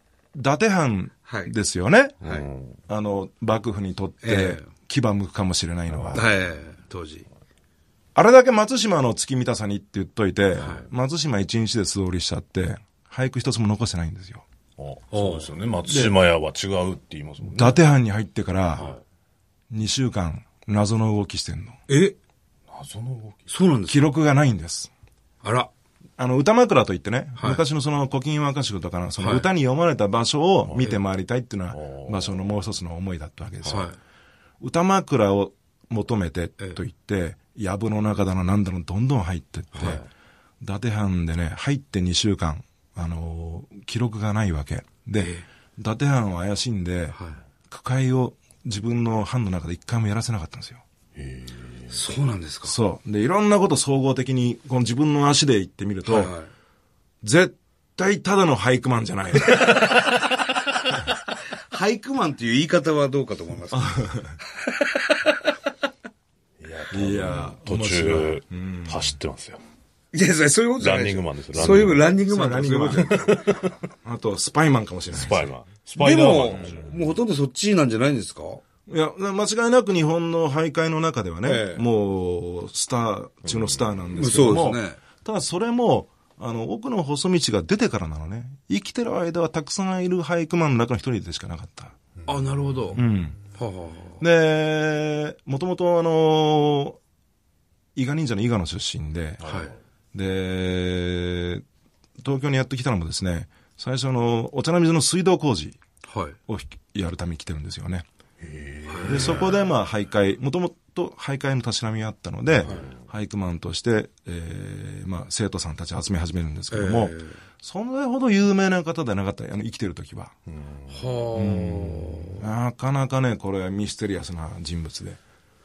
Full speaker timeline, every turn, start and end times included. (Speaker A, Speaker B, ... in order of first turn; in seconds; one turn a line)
Speaker A: 0.3-2.2
Speaker B: 1.2-1.5
Speaker C: 2.2-2.8
Speaker A: 2.9-6.2
Speaker B: 4.2-4.7
Speaker C: 5.9-6.2
Speaker B: 6.1-7.3
Speaker A: 8.2-14.4
Speaker B: 10.6-10.8
Speaker C: 14.8-17.8
Speaker B: 15.1-15.5
Speaker A: 15.8-16.2
Speaker A: 17.4-18.9
Speaker A: 19.7-21.8
Speaker B: 21.9-22.2
Speaker C: 22.7-23.5
Speaker B: 23.5-24.0
Speaker A: 23.9-24.9
Speaker B: 25.4-25.7
Speaker A: 26.2-33.9
Speaker B: 27.4-27.6
Speaker B: 29.2-29.5
Speaker C: 31.7-32.4
Speaker B: 33.6-34.0
Speaker A: 34.6-40.0
Speaker B: 39.8-40.0
Speaker A: 40.6-47.2
Speaker B: 45.2-45.5
Speaker B: 47.1-47.4
Speaker A: 47.7-50.8
Speaker C: 51.1-52.0
Speaker B: 51.9-52.8
Speaker A: 52.6-56.3
Speaker B: 56.1-56.5
Speaker A: 57.2-59.8
Speaker B: 61.7-64.0
Speaker A: 63.7-64.4
Speaker B: 64.7-65.4
Speaker C: 66.6-69.6
Speaker A: 66.9-69.2
Speaker B: 70.1-73.5
Speaker C: 70.8-72.1
Speaker A: 71.6-73.3
Speaker C: 73.1-73.7
Speaker A: 74.0-75.5
Speaker C: 75.1-77.2
Speaker B: 76.0-78.6
Speaker A: 78.9-92.0
Speaker B: 81.4-81.8
Speaker C: 83.5-84.0
Speaker B: 84.1-85.0
Speaker C: 92.2-92.8
Speaker B: 92.2-93.0
Speaker A: 92.9-93.4
Speaker B: 93.5-94.2
Speaker A: 94.2-97.0
Speaker A: 98.0-99.4
Speaker C: 99.4-99.7
Speaker B: 99.4-99.7
Speaker A: 100.1-101.6
Speaker A: 102.2-105.8
Speaker B: 106.1-106.4
Speaker A: 106.5-108.1
Speaker C: 108.4-109.6
Speaker B: 108.9-109.5
Speaker A: 109.0-120.3
Speaker C: 112.6-112.9
Speaker B: 116.7-117.4
Speaker C: 120.5-121.2
Speaker B: 120.9-122.4
Speaker A: 121.3-125.2